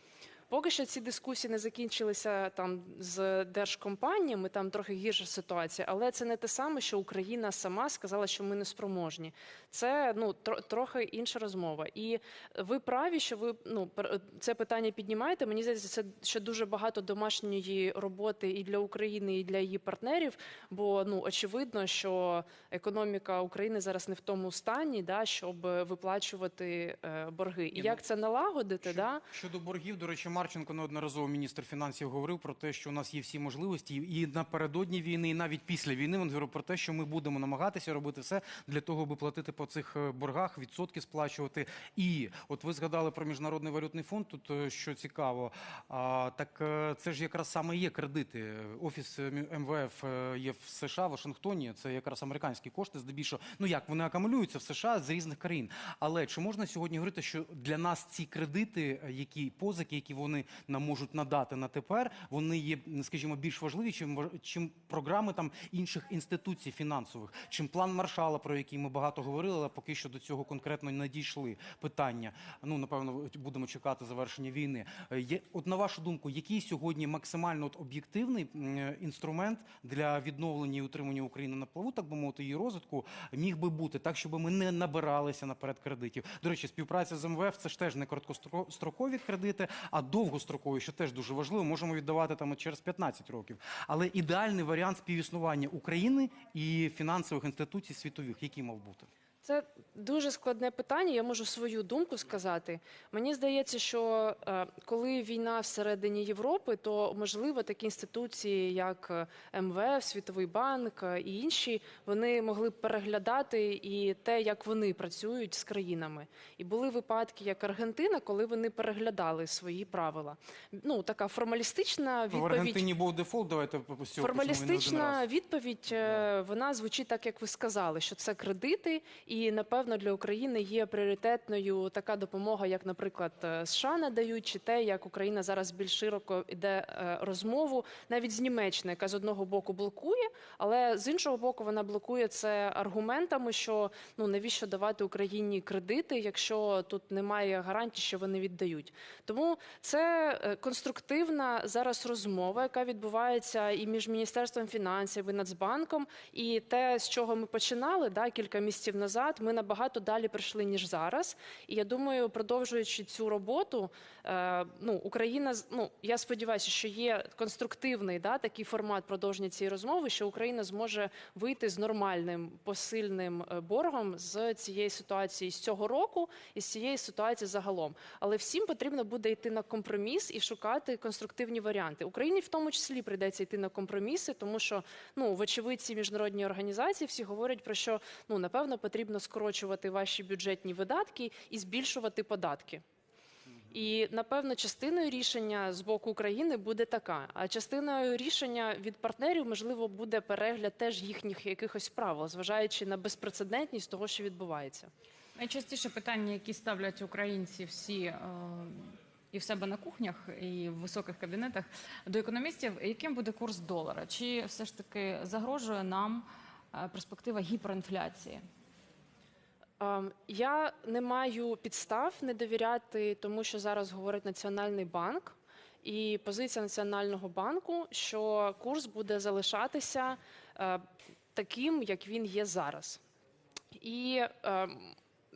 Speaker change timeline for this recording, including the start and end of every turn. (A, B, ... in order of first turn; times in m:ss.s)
0:00.5-0:29.2 A
0:27.7-0:28.0 B
0:28.8-1:39.1 B
1:39.4-2:02.8 A
2:02.3-2:05.2 B
2:04.2-3:12.8 A
3:13.5-3:13.8 B
3:13.7-3:24.9 A
3:25.4-3:38.4 C
3:39.8-3:53.0 A
3:53.8-3:55.0 A